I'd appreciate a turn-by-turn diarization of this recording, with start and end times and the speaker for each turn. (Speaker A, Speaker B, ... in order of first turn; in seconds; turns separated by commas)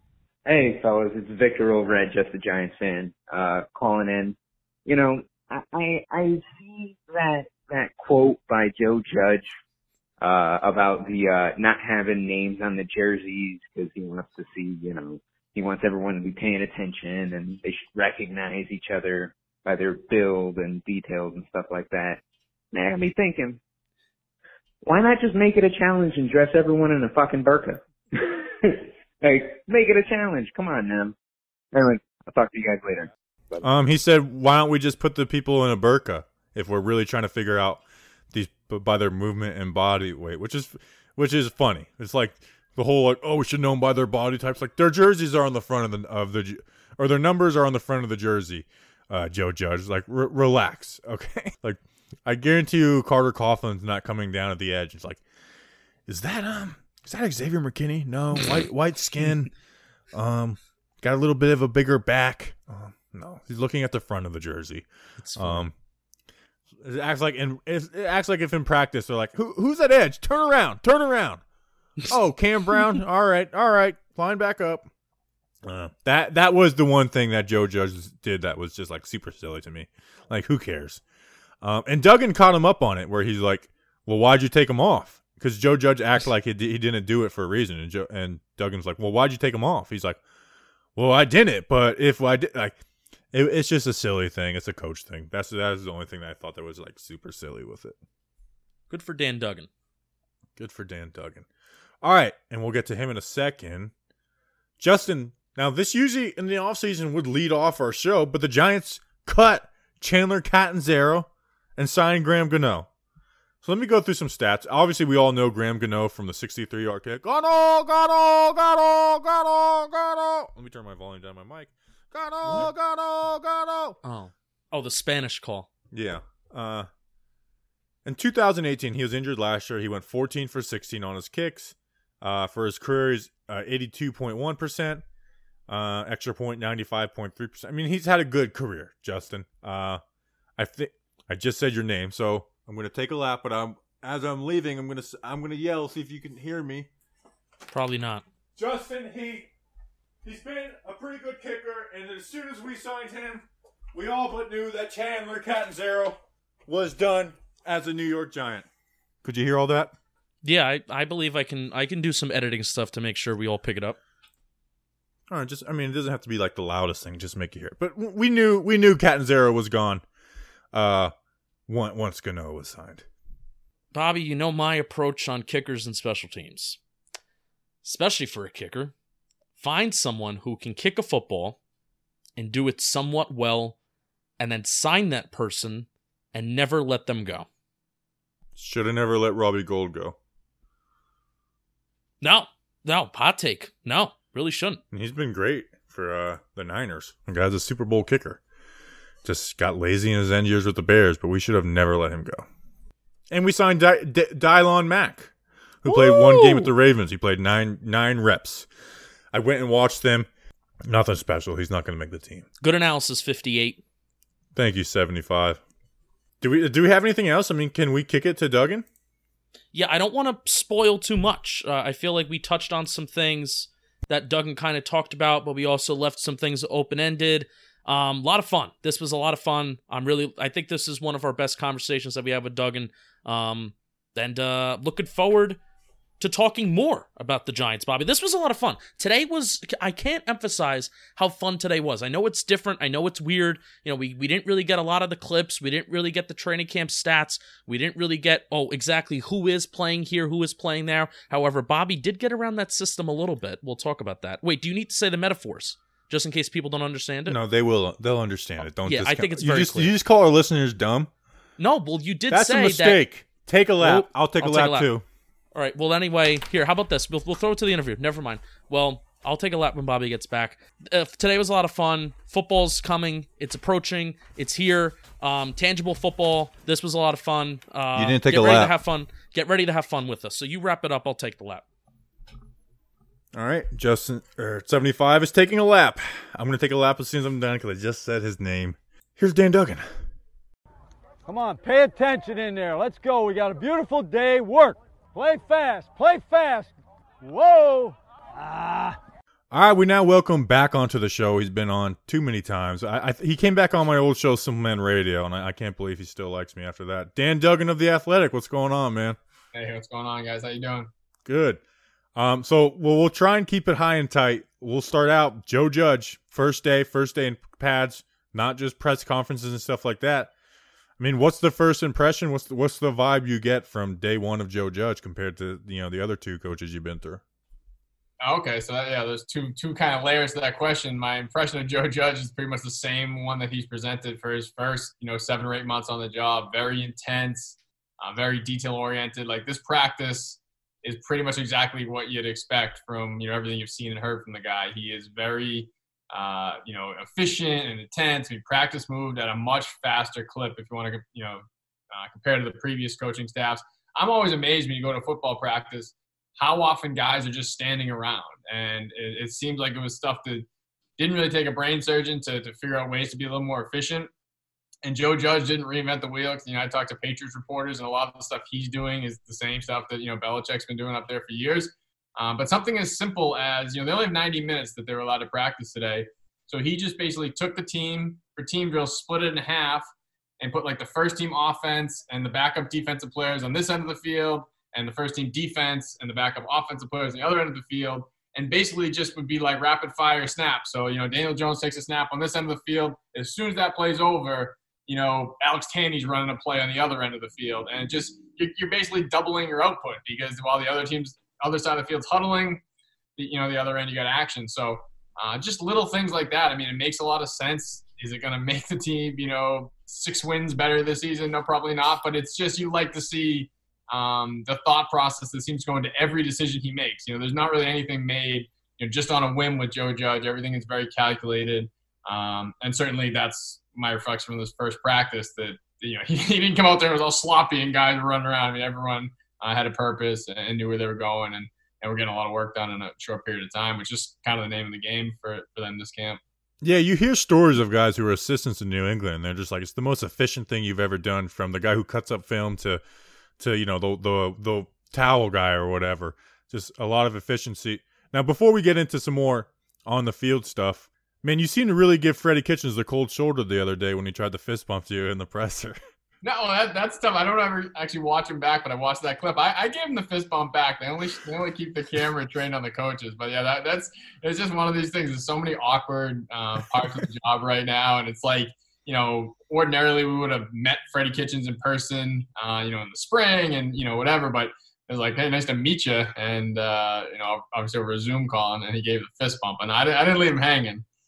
Speaker A: 0.5-9.5, Speaker A: 10.2-22.2, Speaker A: 22.7-23.6, Speaker A: 24.8-31.1, Speaker A: 31.7-33.6, Speaker B: 33.6-55.2, Speaker B: 56.1-59.5, Speaker B: 60.1-65.7, Speaker C: 65.2-65.7, Speaker B: 66.8-71.4, Speaker B: 72.1-74.9, Speaker B: 75.6-81.0, Speaker B: 81.6-90.2, Speaker B: 91.0-92.8, Speaker B: 93.3-98.0, Speaker C: 98.9-99.7, Speaker B: 100.6-101.5, Speaker B: 102.0-103.9, Speaker B: 104.8-112.9, Speaker B: 113.6-124.0, Speaker C: 122.4-122.7, Speaker C: 124.0-125.7, Speaker B: 125.9-126.9, Speaker B: 128.1-135.0, Speaker B: 135.7-140.0, Speaker B: 140.6-146.9, Speaker C: 147.7-148.2, Speaker B: 148.6-149.5, Speaker B: 150.2-158.7, Speaker B: 159.2-159.9, Speaker C: 160.4-164.0, Speaker B: 165.3-170.0, Speaker B: 170.7-171.1, Speaker B: 171.7-173.1, Speaker C: 173.9-176.8, Speaker C: 177.8-178.9, Speaker C: 179.6-181.6, Speaker C: 182.4-183.8, Speaker C: 184.4-187.5, Speaker B: 188.6-190.2, Speaker C: 192.2-194.8, Speaker B: 194.9-198.4, Speaker B: 199.2-202.5, Speaker B: 203.3-205.3, Speaker B: 205.8-208.7, Speaker C: 205.9-206.7, Speaker B: 209.3-210.3, Speaker B: 210.8-212.5, Speaker C: 212.6-213.8, Speaker B: 214.6-215.6, Speaker B: 216.4-218.8, Speaker C: 219.7-235.6, Speaker C: 236.2-257.4, Speaker B: 257.3-261.1, Speaker C: 258.8-259.9, Speaker C: 261.6-263.0, Speaker B: 262.3-265.1, Speaker C: 263.8-264.9, Speaker C: 265.5-281.6, Speaker B: 277.9-278.8, Speaker B: 283.3-289.9, Speaker D: 291.3-299.0, Speaker B: 299.5-309.2, Speaker E: 309.5-310.9, Speaker B: 311.2-311.6, Speaker B: 312.2-320.3, Speaker B: 321.0-327.2, Speaker E: 328.2-360.5, Speaker E: 361.0-364.1, Speaker E: 364.8-379.9, Speaker E: 380.4-402.6, Speaker E: 403.2-436.2, Speaker B: 436.6-442.8, Speaker B: 443.4-455.8, Speaker E: 456.2-480.8